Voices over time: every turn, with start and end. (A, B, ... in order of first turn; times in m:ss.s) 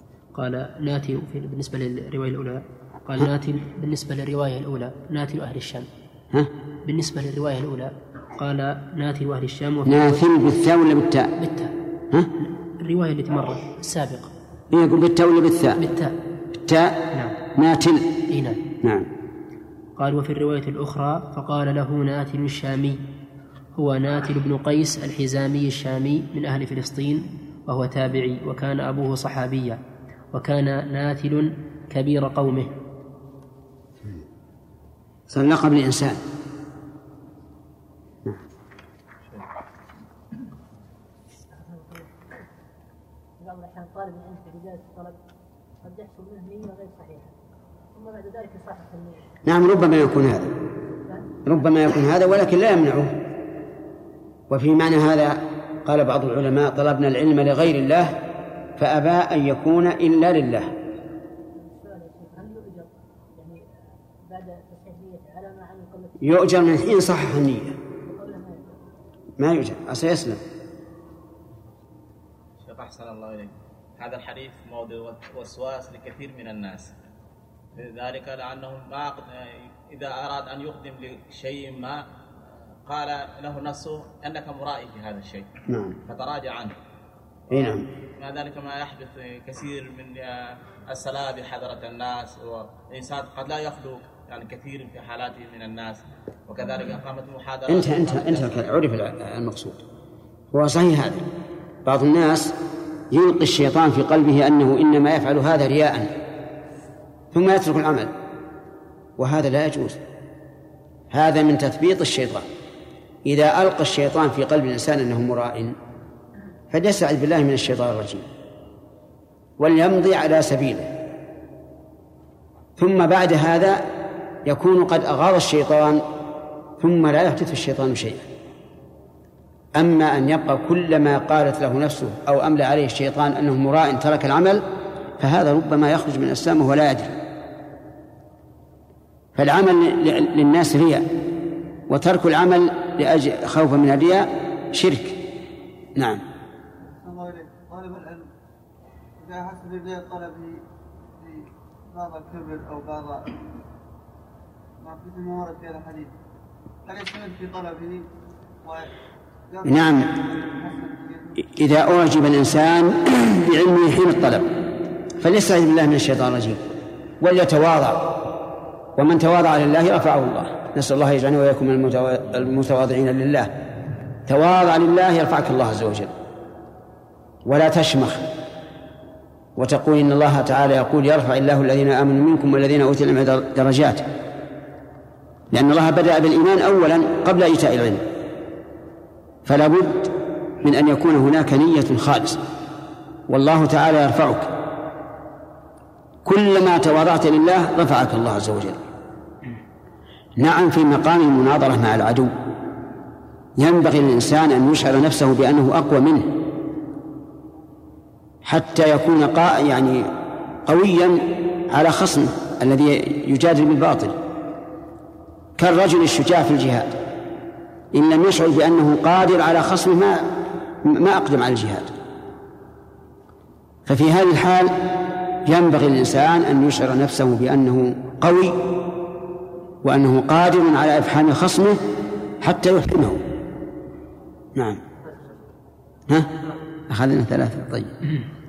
0:00.4-0:05.9 A
0:06.9-0:10.2 A
0:09.8-0:11.3 B
0:11.4-0:11.7 A
0:12.8-0:14.3 A
0:14.7-0:15.8 B
0:15.8-0:16.2 A
0:16.7-0:18.2 B
0:17.1-0:17.4 A
0:18.3-0:18.6 A
0:18.8-0:19.1 B
0:20.0-0:23.0 A
0:23.8-0:29.8 A
0:30.3-0:32.7 A
0:35.3-0:36.2 B
0:41.5-0:42.1 C
0:43.4-0:45.2 C
0:45.8-0:47.3 C
0:47.9-0:49.3 C
0:49.4-0:50.6 B
0:51.4-0:53.2 B
0:54.5-0:58.2 B
0:58.8-1:00.7 B
1:01.5-1:03.6 C
1:04.2-1:06.4 C
1:06.2-1:07.8 B
1:08.0-1:08.8 C
1:09.4-1:10.4 B
1:12.6-1:16.9 D
1:17.8-1:22.0 D
1:22.8-1:25.6 D
1:25.7-1:26.0 B
1:26.0-1:26.8 D
1:27.5-1:27.9 B
1:27.5-1:38.6 D
1:37.7-1:39.8 B
1:40.5-1:41.3 B
1:41.8-1:42.6 B
1:43.1-1:46.1 B
1:47.3-1:48.1 B
1:49.2-1:50.0 B
1:51.1-1:52.5 B
1:53.2-1:55.8 B
1:56.7-1:58.3 B
1:59.6-2:00.9 B
2:02.8-2:03.8 B
2:04.4-2:06.0 B
2:06.8-2:08.3 B
2:09.8-2:14.6 B
2:15.2-2:17.2 B
2:19.4-2:21.1 B
2:21.9-2:25.2 B
2:26.0-2:26.2 B
2:26.9-2:28.2 E
2:29.2-2:30.6 E
2:31.2-2:33.4 E
2:34.8-2:36.1 E
2:36.9-2:38.0 E
2:39.5-2:40.0 E
2:39.6-2:40.1 B
2:40.5-2:41.3 E
2:41.4-2:44.5 B
2:45.2-2:46.6 B
2:47.2-2:48.2 B
2:49.0-2:53.6 B
2:54.3-2:56.1 B
2:57.4-2:58.3 B
2:59.6-3:04.1 B
3:05.5-3:08.1 B
3:09.5-3:12.4 B
3:13.3-3:14.6 B
3:16.2-3:18.9 B
3:20.4-3:22.4 B
3:23.6-3:26.4 B
3:28.4-3:30.1 B
3:30.7-3:34.2 B
3:35.6-3:37.0 B
3:37.9-3:41.9 B
3:43.9-3:48.8 B
3:49.8-3:51.8 B
3:52.4-3:53.2 B
3:54.6-3:54.8 B
3:56.9-3:58.0 B